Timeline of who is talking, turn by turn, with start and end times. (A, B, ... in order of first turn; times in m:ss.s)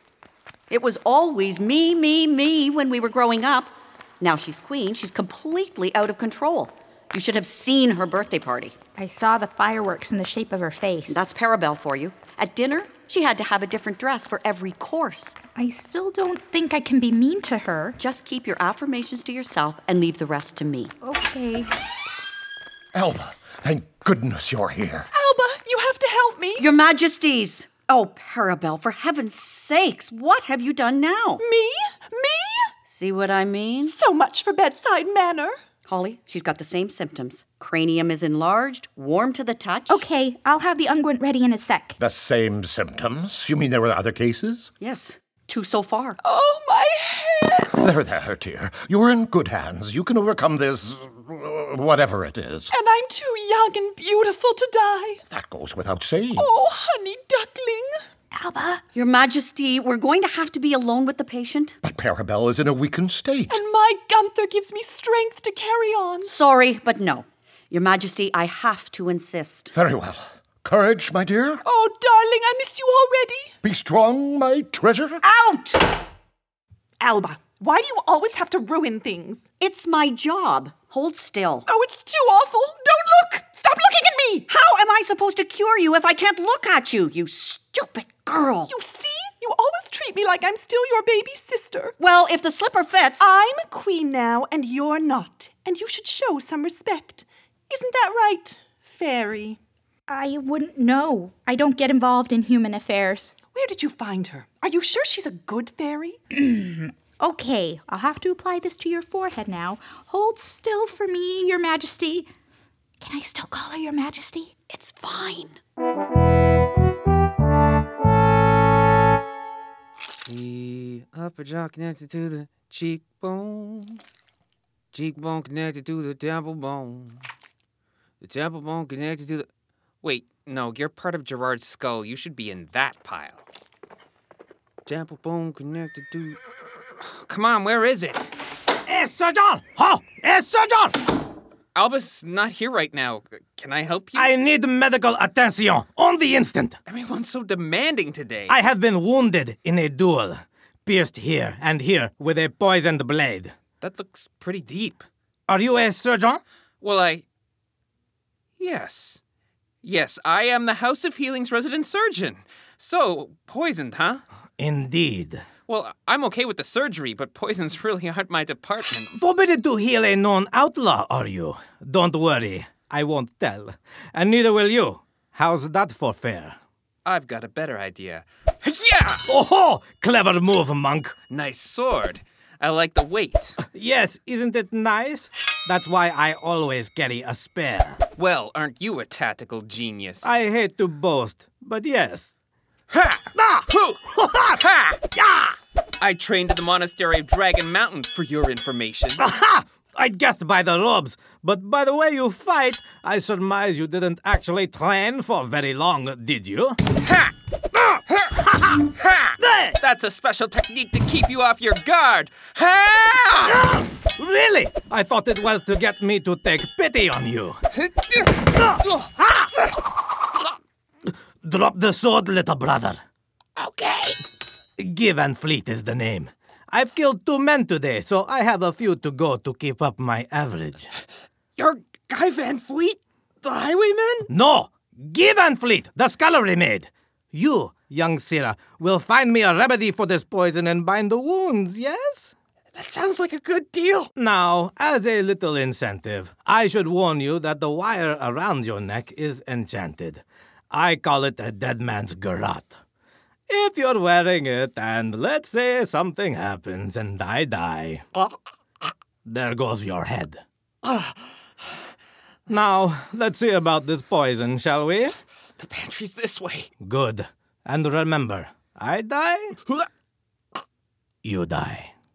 0:00.7-0:08.7 A
0:09.0-0:11.2 B
0:11.1-0:15.4 A
0:15.5-0:18.0 B
0:18.0-0:20.9 A
0:21.0-0:21.7 B
0:22.9-0:25.1 C
0:25.1-0:26.7 D
0:26.6-0:31.4 A
0:31.4-0:32.7 D
0:32.9-0:33.9 A
0:33.8-0:35.6 D
0:35.8-0:40.0 A
0:39.9-0:42.0 B
0:42.0-0:44.7 C
0:44.8-0:46.2 A
0:46.2-0:47.7 D
0:47.8-0:52.7 C
0:52.7-0:55.2 D
0:55.3-0:56.4 C
0:56.4-0:57.9 D
0:58.3-0:58.8 B
0:58.9-1:01.8 A
1:01.8-1:03.6 C
1:03.5-1:06.3 D
1:06.2-1:09.7 A
1:09.8-1:11.6 C
1:11.6-1:13.5 D
1:13.6-1:15.2 C
1:17.0-1:19.5 D
1:19.6-1:21.6 A
1:21.7-1:24.5 D
1:24.5-1:28.7 A
1:28.7-1:31.9 D
1:32.0-1:33.2 A
1:33.2-1:39.6 D
1:40.1-1:43.3 B
1:43.5-1:46.2 D
1:46.3-1:52.3 B
1:53.0-1:54.5 B
1:54.7-1:55.6 A
2:00.2-2:04.0 E
2:04.9-2:07.2 E
2:08.2-2:09.5 E
2:10.0-2:13.4 E
2:14.8-2:16.4 E
2:17.0-2:18.3 E
2:18.8-2:21.0 F
2:21.7-2:24.3 E
2:24.1-2:26.8 F
2:26.9-2:28.5 E
2:28.5-2:33.5 F
2:33.8-2:35.0 E
2:35.5-2:36.4 F
2:36.8-2:37.2 E
2:38.6-2:39.2 E
2:39.8-2:44.2 E
2:44.6-2:45.4 F
2:45.7-2:49.1 E
2:49.1-2:56.6 F
2:57.0-2:59.2 E
2:59.3-3:01.1 F
3:01.3-3:03.6 E
3:03.6-3:08.0 F
3:08.2-3:10.4 E
3:10.2-3:12.3 F
3:12.9-3:14.0 E
3:13.4-3:14.6 F
3:14.6-3:15.0 E
3:15.1-3:15.6 F
3:16.0-3:19.2 E
3:19.2-3:26.8 F
3:27.0-3:27.3 E
3:28.4-3:28.8 F
3:29.0-3:33.8 E
3:29.4-3:29.8 F
3:33.4-3:37.6 F
3:37.8-3:38.3 E
3:38.4-3:39.5 F
3:38.8-3:39.1 E
3:41.4-3:43.0 F
3:43.6-3:44.2 E
3:44.8-3:50.9 F
3:51.6-3:54.3 E
3:54.3-4:02.3 F
4:02.7-4:04.1 E
4:04.2-4:12.8 F
4:13.5-4:18.0 F
4:19.2-4:20.4 F
4:22.5-4:25.1 F
4:25.6-4:26.7 E
4:26.8-4:29.6 F
4:31.2-4:31.9 F